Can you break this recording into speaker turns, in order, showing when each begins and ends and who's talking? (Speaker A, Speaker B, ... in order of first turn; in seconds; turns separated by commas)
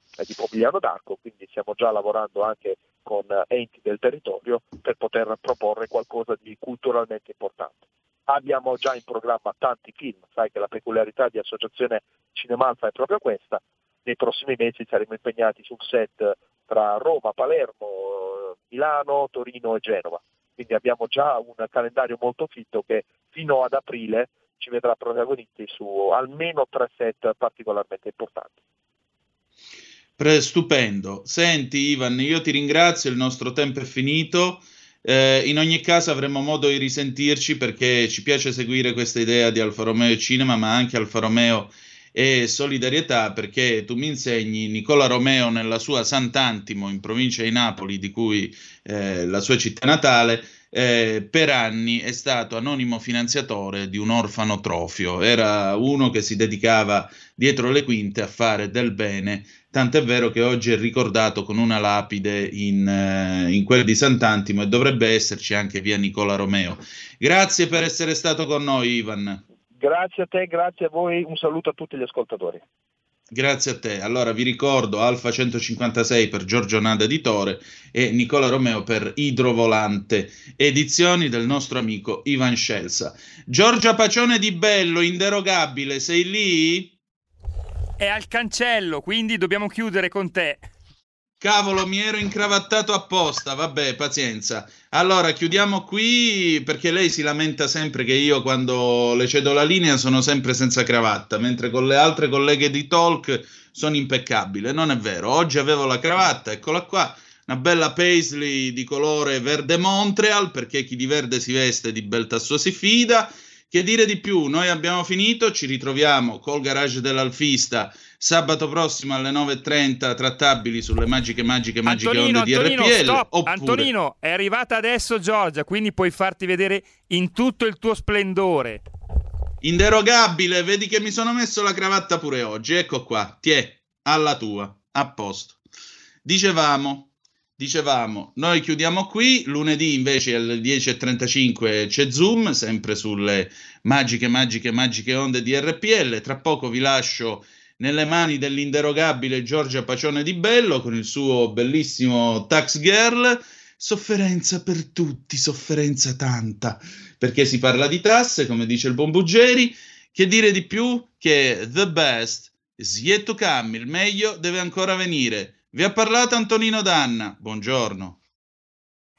Speaker A: 0.2-28.6, Speaker B: 30.2-69.4, Speaker A: 69.8-72.6, Speaker B: 73.3-86.9, Speaker C: 88.0-90.7, Speaker B: 91.4-123.9, Speaker C: 121.9-128.8, Speaker B: 129.6-135.6, Speaker B: 136.2-168.2